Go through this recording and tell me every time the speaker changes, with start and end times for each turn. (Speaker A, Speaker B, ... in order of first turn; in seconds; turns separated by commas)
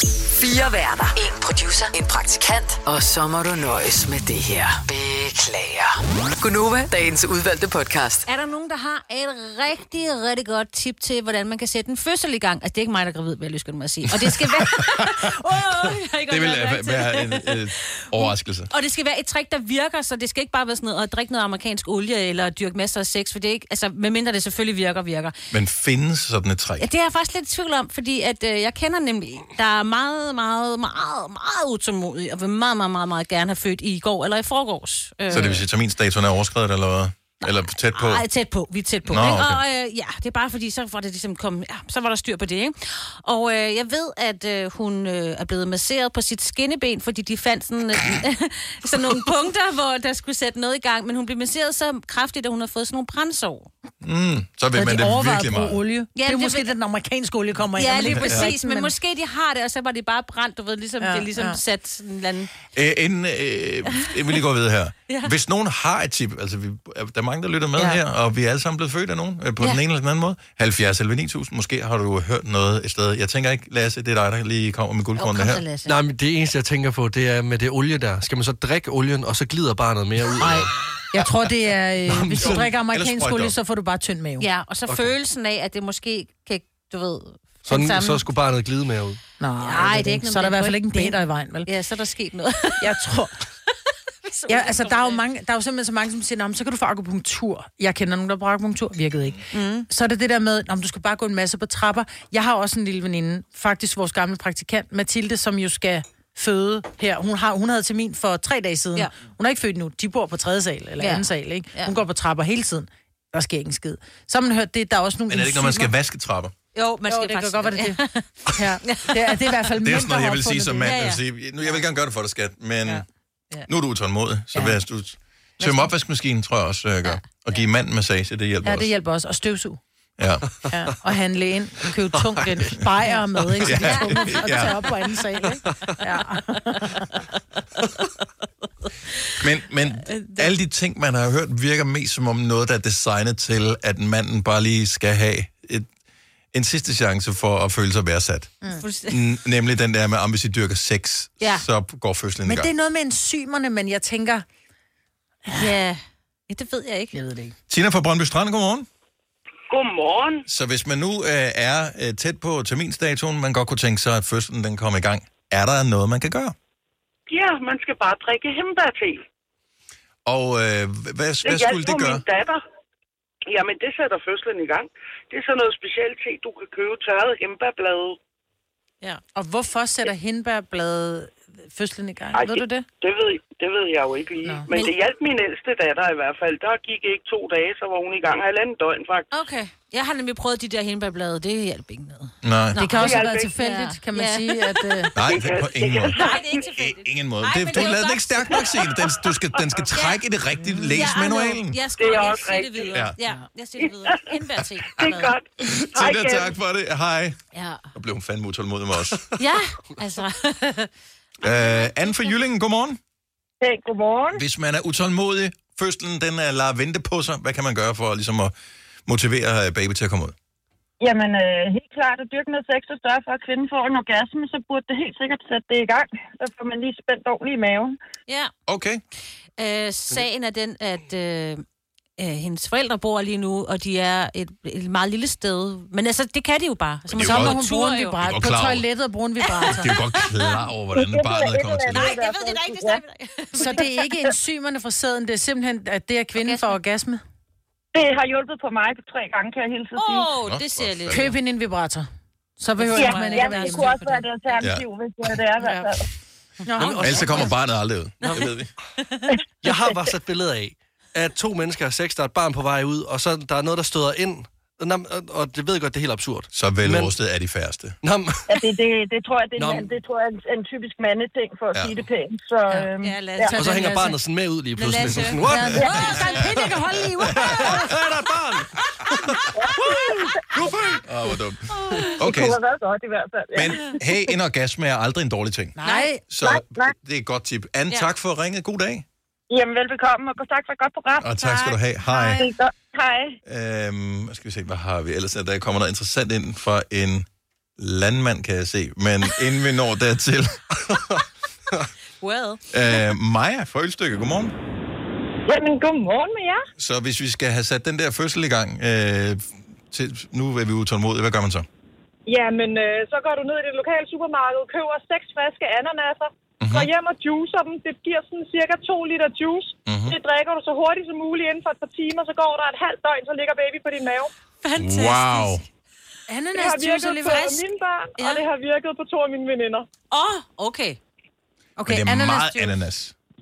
Speaker A: 0.2-8.2, Speaker B: 8.2-25.3, Speaker C: 14.2-15.3, Speaker C: 16.3-18.7, Speaker C: 25.5-26.9, Speaker B: 26.8-35.6, Speaker C: 35.3-38.2, Speaker B: 37.9-53.7, Speaker C: 39.1-39.6, Speaker C: 54.0-55.8, Speaker D: 54.7-58.9, Speaker B: 56.1-56.7, Speaker B: 57.8-62.5, Speaker C: 58.1-58.5, Speaker D: 61.0-61.6, Speaker C: 62.7-75.6, Speaker B: 65.1-65.3, Speaker B: 75.2-76.0, Speaker E: 75.8-80.7, Speaker D: 80.4-84.5, Speaker E: 82.1-82.6, Speaker C: 82.4-83.5, Speaker B: 84.4-87.7, Speaker E: 84.9-85.1, Speaker E: 87.6-89.2, Speaker D: 87.7-88.2, Speaker D: 89.4-91.7, Speaker B: 89.6-93.0, Speaker D: 92.8-93.4, Speaker B: 94.2-95.2, Speaker D: 94.5-115.9, Speaker B: 99.5-99.9, Speaker B: 111.0-112.0, Speaker C: 115.3-116.5, Speaker B: 116.7-118.2, Speaker D: 117.1-121.0, Speaker B: 118.8-119.7, Speaker C: 119.8-123.0, Speaker B: 120.8-121.2, Speaker C: 123.7-128.9, Speaker D: 125.6-125.9, Speaker D: 128.6-129.8, Speaker C: 130.2-130.5, Speaker D: 130.7-137.1, Speaker E: 132.1-132.7, Speaker C: 133.6-134.8, Speaker B: 133.7-134.7, Speaker C: 139.4-145.9, Speaker B: 140.0-140.5, Speaker C: 146.5-148.6, Speaker B: 148.8-149.2, Speaker C: 149.1-152.7, Speaker D: 152.4-154.4, Speaker B: 155.5-157.2, Speaker D: 157.1-157.5, Speaker C: 157.7-158.9, Speaker F: 159.7-160.4, Speaker C: 160.5-166.5, Speaker F: 167.3-169.2, Speaker C: 170.2-172.2, Speaker F: 171.4-172.6, Speaker F: 173.5-178.2, Speaker D: 179.3-182.8, Speaker F: 182.3-189.3, Speaker B: 189.3-195.1, Speaker C: 192.4-192.8, Speaker D: 192.8-195.2, Speaker F: 192.9-193.5, Speaker C: 195.1-201.8, Speaker F: 195.2-196.6, Speaker B: 196.1-198.9, Speaker F: 199.1-199.8, Speaker B: 199.9-205.4, Speaker F: 202.0-203.0, Speaker F: 203.8-206.5, Speaker C: 205.6-207.4, Speaker B: 207.5-207.8, Speaker C: 207.9-209.2, Speaker B: 209.4-210.9, Speaker B: 211.4-212.3, Speaker C: 211.4-213.0, Speaker G: 213.6-214.3, Speaker C: 214.3-218.5, Speaker C: 219.1-220.3, Speaker G: 221.0-227.9, Speaker C: 228.7-229.0, Speaker B: 229.6-231.6, Speaker B: 232.2-238.1, Speaker D: 237.1-239.9, Speaker C: 237.1-237.6, Speaker C: 238.2-238.8, Speaker B: 239.5-240.6, Speaker C: 239.8-242.2, Speaker G: 241.0-242.0, Speaker B: 241.9-243.9, Speaker D: 243.6-247.2, Speaker B: 246.4-246.8, Speaker G: 247.9-250.2, Speaker B: 249.9-251.4, Speaker C: 250.4-251.2, Speaker D: 251.1-252.1, Speaker D: 252.6-254.2, Speaker B: 252.8-254.2, Speaker G: 253.1-253.7, Speaker G: 254.3-255.8, Speaker C: 254.6-255.4, Speaker D: 255.6-255.9, Speaker D: 256.6-257.2, Speaker E: 256.8-257.6, Speaker C: 257.0-258.7, Speaker E: 258.2-258.6, Speaker B: 259.0-259.2, Speaker E: 259.6-267.1, Speaker C: 266.5-267.9, Speaker E: 268.0-268.6, Speaker G: 268.9-272.8, Speaker E: 269.5-269.9, Speaker C: 271.7-272.1, Speaker B: 272.9-274.1, Speaker E: 273.4-276.4, Speaker D: 273.5-274.1, Speaker B: 274.7-276.3, Speaker D: 275.4-277.9, Speaker E: 277.2-281.0, Speaker C: 277.3-278.6, Speaker C: 281.0-282.6, Speaker B: 281.7-282.2, Speaker G: 282.3-283.7, Speaker C: 283.5-285.8, Speaker D: 285.8-286.2, Speaker B: 285.8-286.1, Speaker C: 286.3-289.1, Speaker G: 289.6-291.2, Speaker C: 291.2-292.4, Speaker D: 291.4-292.4, Speaker C: 293.4-297.2, Speaker C: 297.8-300.6, Speaker B: 302.2-302.6, Speaker C: 302.7-304.5, Speaker C: 306.8-311.7, Speaker H: 312.3-313.8, Speaker C: 316.6-316.9, Speaker H: 316.7-324.3, Speaker C: 319.9-320.1, Speaker B: 324.6-325.6, Speaker C: 324.8-325.6, Speaker D: 326.3-327.6, Speaker H: 326.6-329.9, Speaker B: 327.1-327.6, Speaker B: 328.2-328.5, Speaker B: 330.1-331.0, Speaker D: 331.8-332.8, Speaker C: 331.8-333.1